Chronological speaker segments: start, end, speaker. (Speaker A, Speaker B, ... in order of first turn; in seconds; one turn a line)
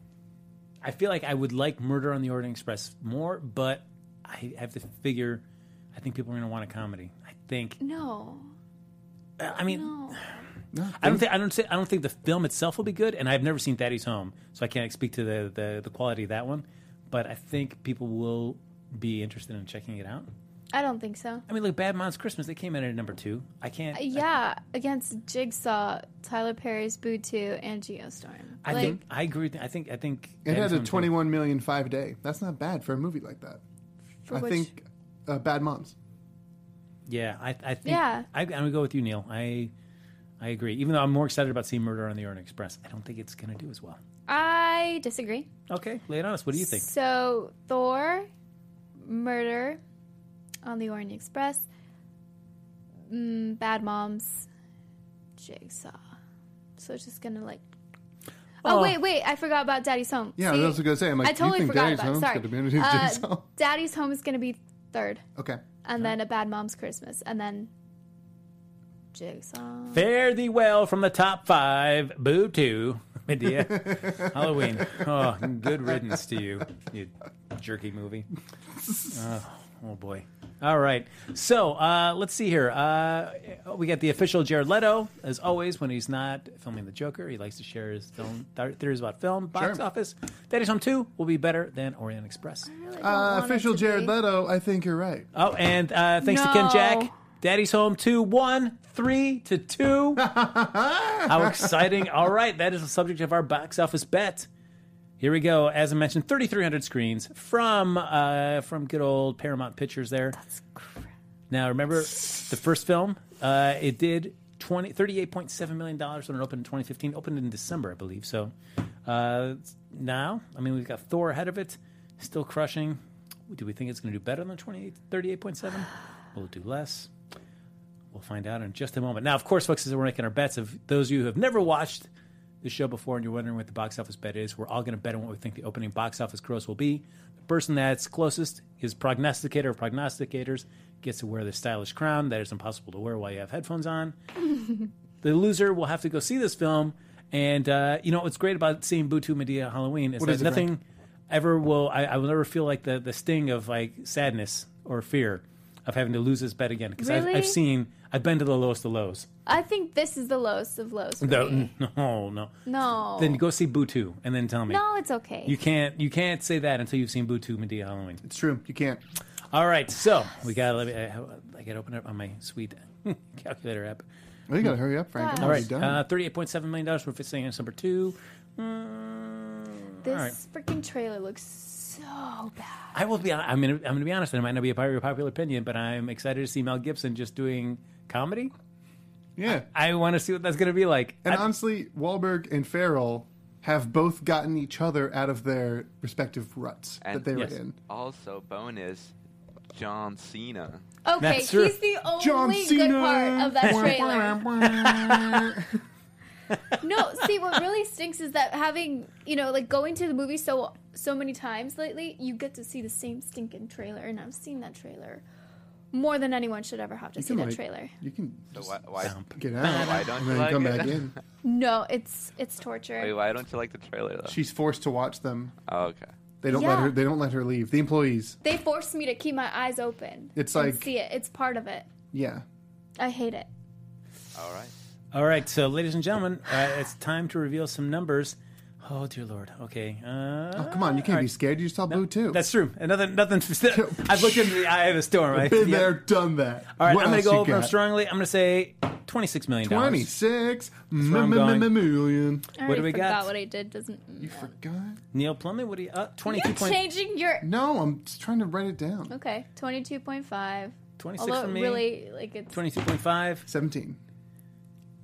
Speaker A: 0.8-5.4
Speaker A: 6.0-7.8
Speaker B: 7.8-8.5
Speaker A: 9.4-10.2
Speaker B: 9.7-10.2
Speaker C: 10.7-11.2
Speaker A: 11.0-20.3
Speaker B: 20.7-21.4
Speaker A: 21.5-24.2
Speaker B: 23.9-28.9
Speaker A: 28.6-31.2
Speaker C: 28.7-29.0
Speaker C: 30.4-33.6
Speaker B: 34.3-34.7
Speaker C: 34.3-36.0
Speaker A: 37.1-39.7
Speaker B: 37.9-38.3
Speaker A: 40.4-44.0
Speaker B: 44.3-45.5
Speaker A: 45.7-46.9
Speaker B: 46.6-48.3
Speaker B: 49.0-49.8
Speaker B: 50.6-51.7
Speaker B: 53.1-54.5
Speaker B: 55.4-56.0
Speaker B: 56.8-57.6
Speaker B: 58.6-65.2
Speaker A: 58.6-59.0
Speaker C: 60.4-63.5
Speaker C: 65.4-65.6
Speaker B: 65.8-67.7
Speaker B: 69.1-70.0
Speaker A: 69.9-78.3
Speaker C: 73.6-74.3
Speaker A: 79.1-92.7
Speaker C: 89.5-89.8
Speaker B: 92.7-94.1
Speaker C: 93.0-95.3
Speaker A: 95.3-100.3
Speaker B: 96.2-97.1
Speaker C: 100.2-101.8
Speaker A: 101.2-104.5
Speaker A: 105.2-110.4
Speaker B: 110.6-111.0
Speaker A: 111.5-118.5
Speaker A: 119.1-127.1
Speaker A: 128.1-132.1
Speaker A: 132.6-144.2
Speaker A: 145.2-159.3
Speaker C: 150.2-150.7
Speaker B: 157.0-157.6
Speaker B: 159.5-161.7
Speaker A: 161.2-162.5
Speaker B: 162.7-163.4
Speaker A: 163.2-164.8
Speaker B: 164.7-165.6
Speaker A: 165.5-168.2
Speaker C: 168.2-169.0
Speaker A: 169.5-174.0
Speaker C: 174.5-176.0
Speaker B: 175.2-175.7
Speaker A: 175.4-180.4
Speaker B: 180.0-182.9
Speaker A: 182.9-188.5
Speaker C: 189.4-189.7
Speaker A: 189.4-191.5
Speaker C: 191.2-197.8
Speaker D: 197.0-197.3
Speaker D: 197.9-199.1
Speaker D: 199.7-200.8
Speaker B: 201.1-204.5
Speaker A: 201.2-201.8
Speaker C: 202.2-205.8
Speaker A: 203.6-204.1
Speaker A: 204.6-205.7
Speaker A: 206.5-207.3
Speaker B: 206.8-215.2
Speaker B: 215.9-217.9
Speaker C: 217.2-221.1
Speaker D: 218.5-221.1
Speaker A: 219.0-220.1
Speaker B: 221.4-223.2
Speaker D: 223.0-224.4
Speaker C: 224.3-225.6
Speaker D: 225.7-226.1
Speaker C: 226.4-228.4
Speaker B: 226.5-227.0
Speaker B: 228.4-231.9
Speaker C: 230.4-230.9
Speaker C: 232.1-232.4
Speaker B: 233.0-233.5
Speaker D: 234.3-234.7
Speaker A: 235.1-241.3
Speaker C: 240.6-242.4
Speaker A: 241.9-246.0
Speaker C: 243.7-244.8
Speaker C: 245.3-247.8
Speaker A: 246.8-250.1
Speaker C: 249.6-252.5
Speaker A: 251.0-251.7
Speaker B: 252.6-254.5
Speaker A: 252.7-253.3
Speaker C: 254.2-255.0
Speaker A: 255.1-256.8
Speaker B: 256.3-257.5
Speaker C: 257.4-259.1
Speaker B: 259.1-262.6
Speaker A: 261.0-261.9
Speaker A: 262.5-263.5
Speaker C: 263.5-264.0